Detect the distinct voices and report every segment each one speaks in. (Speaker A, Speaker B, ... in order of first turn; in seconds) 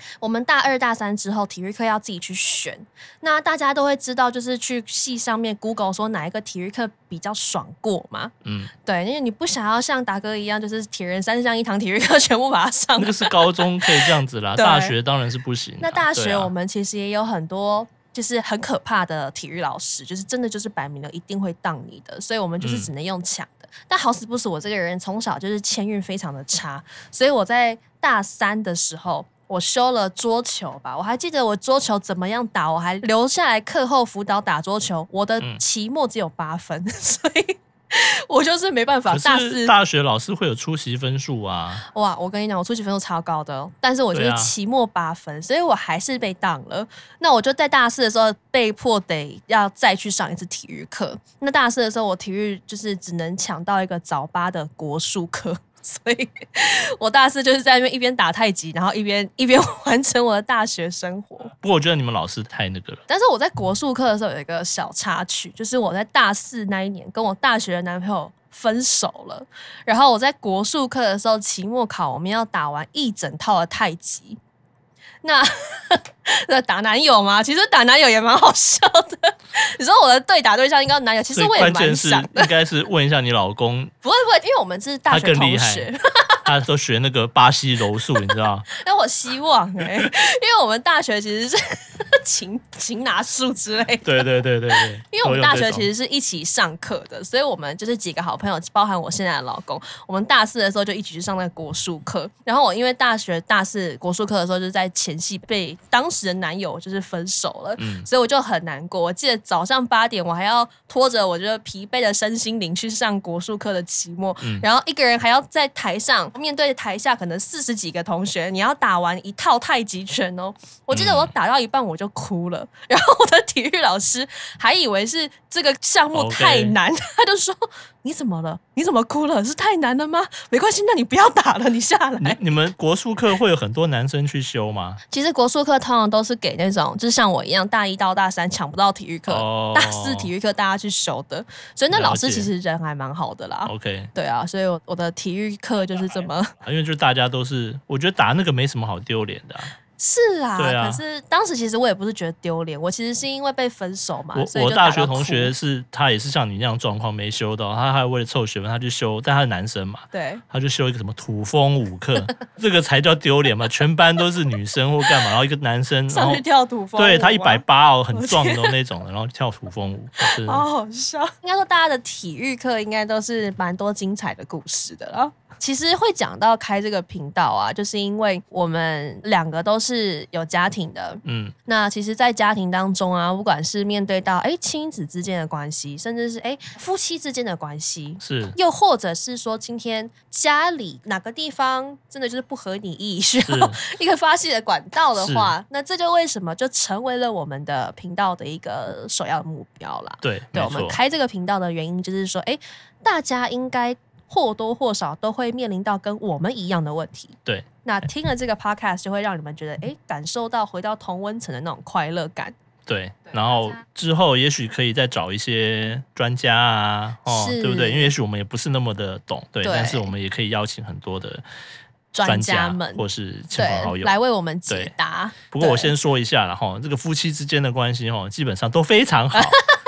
Speaker A: 0.2-8.3, 8.8-13.9, 14.5-14.9, 15.8-39.7, 41.9-61.5, 63.1-74.4, 75.2-82.5, 84.0-86.5, 88.8-132.4, 135.1-146.5, 150.0-155.5, 160.1-160.4, 166.1-168.8, 170.2-212.5, 217.3-218.1, 219.6-220.1, 222.1-225.9, 229.3-229.6
Speaker B: 8.4-8.7, 13.0-16.5, 22.6-22.9, 39.1-41.9, 44.1-44.5, 61.6-63.0, 81.3-83.9, 85.1-85.9, 86.5-88.7, 94.0-95.9, 107.8-108.1, 120.9-121.3, 126.1-126.8, 132.2-135.0, 139.3-140.3, 141.9-142.5, 143.7-144.1, 146.6-149.7, 150.6-151.0, 154.3-166.4, 167.0-170.7, 181.2-181.5, 188.2-188.6, 193.5-193.8, 195.2-195.5, 200.2-201.0, 212.9-221.4, 222.2-224.2, 224.7-224.9, 225.5-229.6